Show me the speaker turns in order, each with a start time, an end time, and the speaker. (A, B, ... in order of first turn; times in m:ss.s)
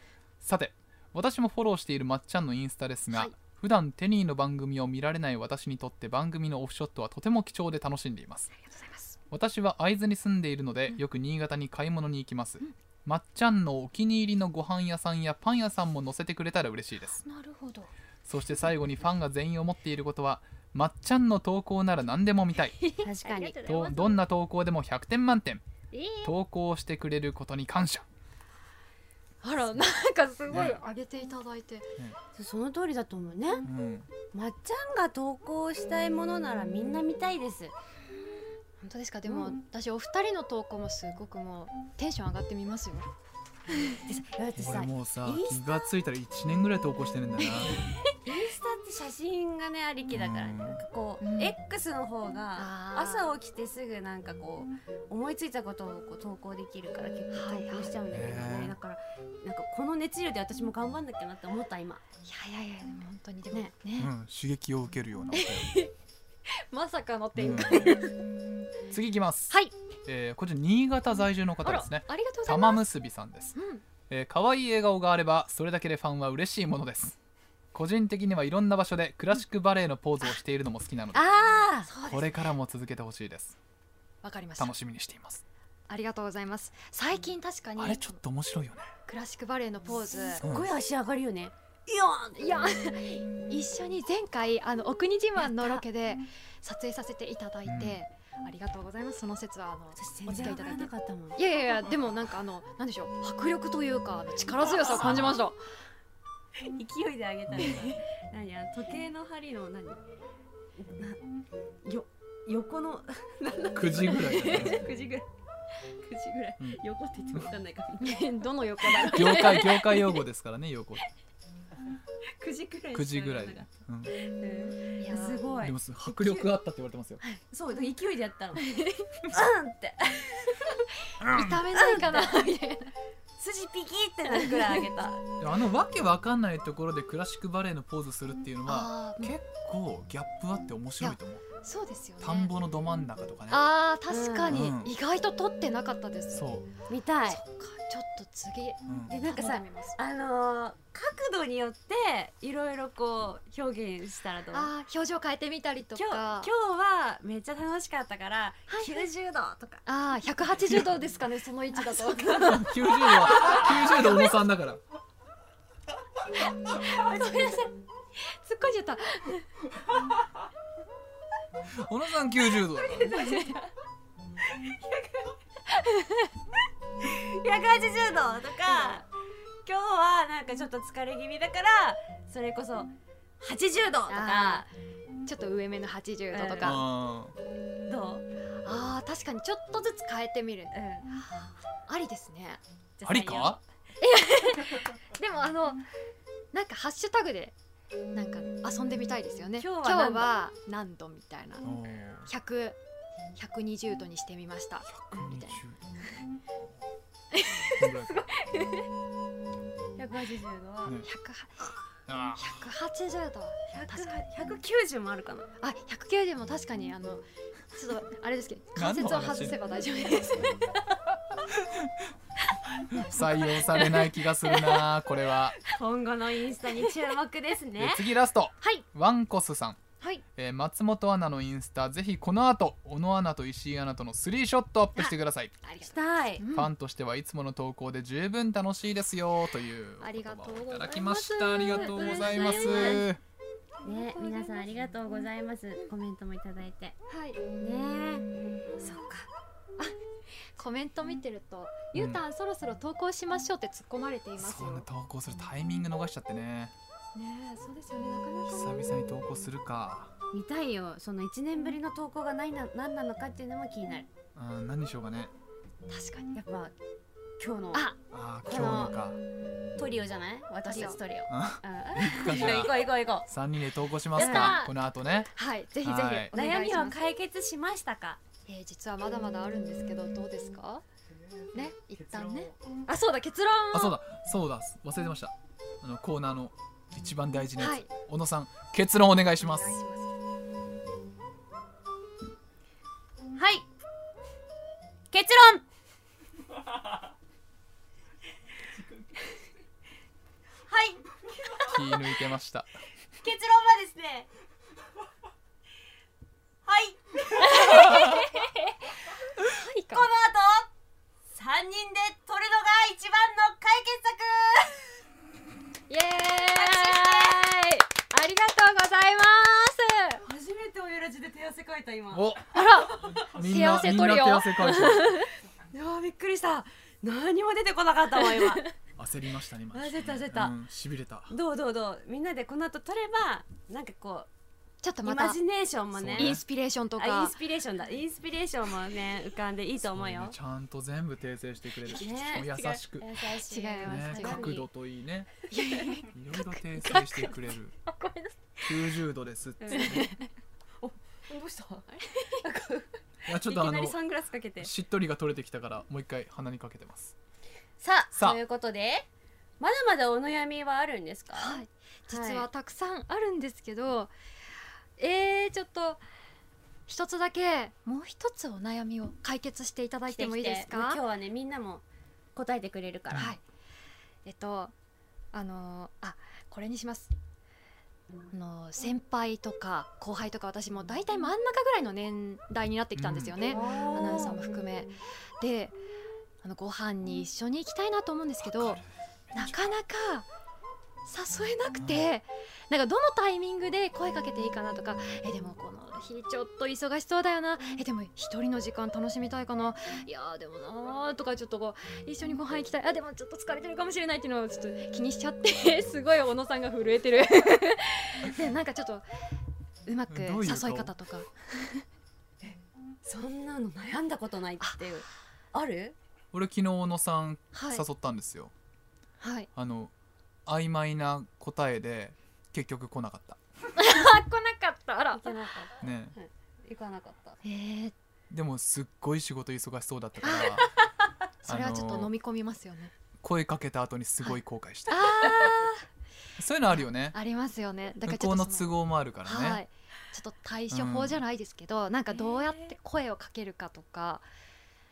0:00.4-0:08.5 A
0:08.6-0:09.2 B
0:09.3-0:17.2 A
0:17.2-0:17.9 B
0:18.2-0:22.8 A
0:22.8-0:24.1 B
0:23.0-0:23.8 C
0:23.6-0:25.6 A
0:25.9-0:26.3 B
0:26.2-0:28.1 A
0:29.4-0:31.9 B
0:30.5-0:30.8 A
0:32.4-0:33.7 C
0:33.6-0:34.1 A
0:34.3-0:37.7 C
0:38.8-0:43.1 B
0:39.3-0:39.6 C
0:44.0-0:45.6 C
0:44.6-0:47.8 A
0:47.4-0:47.7 B
0:48.2-1:02.0 C
0:50.1-0:50.8 A
0:51.2-0:51.5 B
0:52.6-0:53.3 B
0:57.3-0:58.0 B
0:58.1-0:58.8 A
1:02.2-1:04.1 B
1:04.0-1:05.7 A
1:05.3-1:05.9 B
1:06.5-1:08.1 B
1:07.4-1:07.9 A
1:08.9-1:09.5 A
1:10.1-1:13.6 A
1:11.6-1:12.8 B
1:13.6-1:13.8 B
1:14.1-1:17.2 A
1:17.7-1:21.2 A
1:21.1-1:21.9 C
1:21.9-1:22.5 B
1:22.0-1:23.6 A
1:24.2-1:24.7 B
1:24.6-1:25.4 A
1:25.9-1:28.2 B
1:27.8-1:28.9 A
1:29.1-1:30.4 B
1:30.0-1:32.5 C
1:30.4-1:30.7 A
1:32.4-1:45.6 B
1:35.4-1:35.8 C
1:37.7-1:38.0 A
1:40.0-1:41.4 C
1:45.0-1:45.4 A
1:46.6-1:50.0 C
1:47.5-1:47.9 A
1:47.6-1:47.9 B
1:50.8-1:51.2 C
1:51.8-1:55.3 C
1:53.8-1:54.9 A
1:56.0-1:59.6 C
1:58.0-2:00.2 B
1:59.1-2:01.0 A
2:02.4-2:06.5 C
2:02.9-2:04.1 A
2:05.0-2:05.5 B
2:05.6-2:07.2 A
2:07.5-2:08.7 C
2:08.6-2:09.1 B
2:09.3-2:10.7 C
2:11.2-2:12.9 B
2:11.2-2:11.6 A
2:11.7-2:12.5 C
2:13.4-2:15.2 C
2:14.3-2:14.8 B
2:15.4-2:21.4 A
2:18.7-2:19.3 B
2:21.0-2:22.5 B
2:22.2-2:23.6 A
2:23.5-2:26.4 B
2:24.1-2:24.6 C
2:24.5-2:24.9 A
2:26.3-2:26.7 A
2:26.9-2:27.4 C
2:27.3-2:30.0 B
2:29.1-2:34.7 C
2:34.5-2:36.5 B
2:36.0-2:39.8 C
2:38.7-2:39.1 B
2:39.9-2:44.2 B
2:41.8-2:42.6 C
2:42.4-2:44.8 A
2:43.3-2:43.7 C
2:46.7-2:47.7 B
2:46.8-2:47.6 C
2:48.2-2:49.5 B
2:51.7-2:53.2 A
2:53.0-2:53.6 B
2:53.1-2:53.6 C
2:54.6-2:55.3 C
2:55.7-2:56.3 B
2:57.0-2:59.1 C
2:59.7-3:04.7 C
3:04.1-3:04.7 B
3:05.3-3:06.8 B
3:06.3-3:06.8 C
3:06.6-3:07.4 A
3:07.9-3:08.2 C
3:08.6-3:10.7 B
3:10.7-3:11.1 C
3:11.9-3:12.6 B
3:13.0-3:13.6 C
3:13.0-3:13.6 A
3:14.0-3:15.8 B
3:16.5-3:17.6 B
3:18.1-3:21.7 B
3:19.6-3:20.3 C
3:21.6-3:22.3 A
3:22.3-3:22.8 B
3:23.4-3:25.6 B
3:24.8-3:26.0 A
3:27.3-3:28.0 B
3:27.8-3:28.2 A
3:28.4-3:28.8 C
3:30.0-3:31.0 C
3:31.0-3:31.7 B
3:32.1-3:32.6 A
3:32.4-3:34.3 B
3:33.7-3:35.5 C
3:35.6-3:40.8 B
3:38.8-3:39.6 A
3:41.5-3:41.9 A
3:42.9-3:45.6 A
3:43.1-3:44.9 B
3:45.6-3:48.1 C
3:47.8-3:49.8 A
3:50.4-3:55.5 A
3:55.0-3:56.7 B
3:55.8-3:56.4 C
3:56.5-4:03.2 A
4:00.0-4:03.0 B
4:01.7-4:03.1 C
4:03.8-4:04.8 B
4:03.8-4:07.0 C
4:07.1-4:07.6 B
4:07.6-4:08.2 C
4:08.8-4:10.0 B
4:10.6-4:14.8 B
4:12.0-4:12.2 A
4:14.4-4:16.7 A
4:17.2-4:18.9 B
4:18.5-4:20.1 A
4:20.3-4:24.1 C
4:24.4-4:25.3 A
4:25.9-4:26.4 B
4:26.3-4:26.8 C
4:27.4-4:27.9 C
4:28.1-4:29.2 A
4:28.5-4:29.0 C
4:29.8-4:33.3 C
4:30.7-4:31.0 B
4:31.3-4:35.3 A
4:32.3-4:32.7 B
4:34.2-4:34.7 B
4:34.2-4:34.6 C
4:35.3-4:37.0 B
4:35.8-4:36.3 A
4:36.3-4:38.2 C
4:38.5-4:40.8 B
4:41.5-4:44.0 B
4:43.7-4:49.8 A
4:47.6-4:47.9 B
4:49.4-4:50.1 B
4:53.4-4:53.7 C
4:55.1-4:55.6 C
5:00.7-5:01.9 C
5:01.6-5:02.7 A
5:03.2-5:04.3 C
5:06.7-5:08.2 C
5:07.4-5:08.8 B
5:09.4-5:10.1 B
5:09.9-5:10.7 C
5:11.3-5:14.9 C
5:15.9-5:20.2 B
5:16.5-5:17.4 C
5:20.2-5:22.3 C
5:22.1-5:25.2 A
5:22.5-5:25.3 B
5:25.7-5:28.7 C
5:28.2-5:28.6 B
5:29.0-5:31.3 A
5:29.7-5:30.6 C
5:31.3-5:34.3 C
5:34.8-5:35.4 B
5:35.0-5:36.4 C
5:36.0-5:36.4 A
5:36.2-5:37.4 B
5:37.0-5:40.4 C
5:39.9-5:43.1 A
5:41.9-5:44.7 C
5:43.5-5:44.5 B
5:43.8-5:45.3 A
5:45.5-5:48.3 B
5:46.1-5:47.8 A
5:48.6-5:50.1 A
5:49.6-5:50.1 C
5:49.7-5:50.3 B
5:50.8-5:54.7 C
5:51.9-5:52.4 B
5:53.3-5:54.0 A
5:54.6-5:57.2 A
5:57.8-5:59.1 C
5:58.1-5:58.4 A
5:59.6-6:02.5 C
6:01.4-6:04.1 B
6:05.0-6:06.0 B
6:06.9-6:11.0 B
6:10.1-6:13.3 C
6:13.1-6:13.4 B
6:14.2-6:14.7 B
6:15.3-6:17.1 B
6:18.3-6:25.8 B
6:23.0-6:23.4 A
6:23.5-6:24.4 C
6:26.4-6:28.8 B
6:28.4-6:29.8 A
6:29.4-6:30.3 B
6:31.1-6:49.1 B
6:31.8-6:32.1 A
6:49.9-6:51.8 B
6:50.1-6:50.9 A
6:52.4-6:56.0 C
6:56.3-6:58.5 A
6:57.5-6:57.8 B
6:59.2-6:59.5 B
6:59.6-6:59.9 A
7:00.5-7:03.4 A
7:03.8-7:05.2 B
7:05.2-7:07.4 C
7:05.8-7:06.2 A
7:07.4-7:08.0 B
7:08.3-7:10.7 A
7:10.2-7:10.7 B
7:11.4-7:12.9 B
7:11.5-7:12.1 A
7:13.2-7:15.3 A
7:14.9-7:15.8 B
7:16.4-7:17.2 A
7:17.1-7:18.7 B
7:18.0-7:19.6 A
7:19.2-7:24.3 B
7:20.7-7:21.2 A
7:22.1-7:22.8 C